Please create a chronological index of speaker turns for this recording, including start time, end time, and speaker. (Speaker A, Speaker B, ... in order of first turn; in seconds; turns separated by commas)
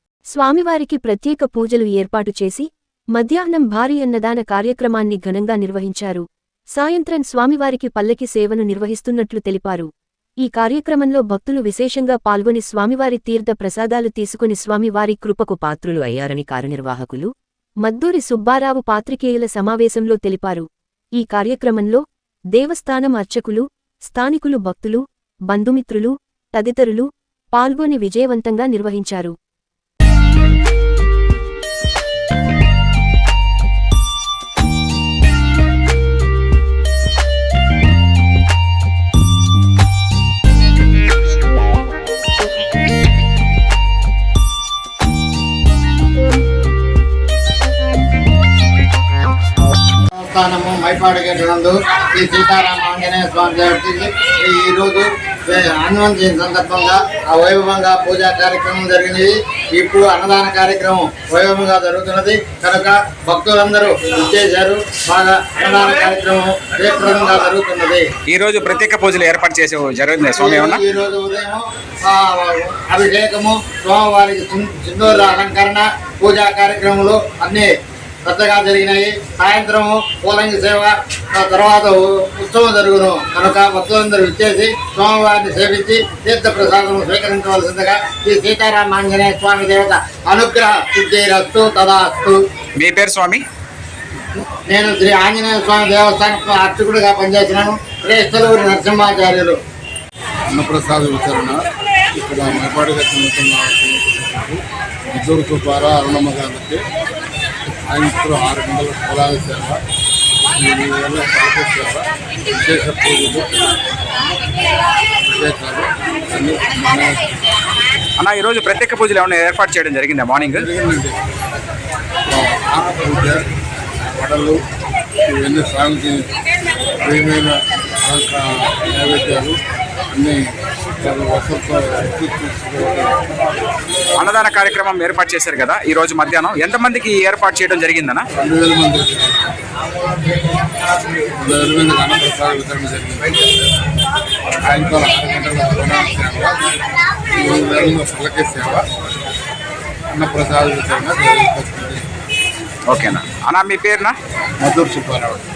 Speaker A: 0.3-9.9, Speaker A: 10.4-17.3, Speaker A: 17.8-22.0, Speaker A: 22.6-29.4, Speaker B: 50.1-68.1, Speaker C: 68.3-70.8, Speaker B: 70.3-77.7, Speaker B: 78.2-92.4, Speaker C: 92.8-93.4, Speaker B: 94.7-99.6, Speaker D: 100.5-101.6, Speaker D: 102.2-104.6, Speaker D: 105.1-106.8, Speaker D: 107.7-109.8, Speaker D: 110.6-113.6, Speaker D: 115.2-117.3, Speaker C: 118.2-120.7, Speaker D: 120.4-121.2, Speaker D: 122.3-123.5, Speaker D: 124.1-124.6, Speaker D: 125.3-126.3, Speaker D: 127.0-129.6, Speaker D: 130.1-130.5, Speaker D: 131.0-133.3, Speaker C: 134.2-138.2, Speaker D: 138.3-139.4, Speaker D: 141.4-143.4, Speaker D: 144.6-146.6, Speaker D: 147.3-148.9, Speaker D: 150.1-152.0, Speaker C: 152.9-154.2, Speaker D: 154.6-155.4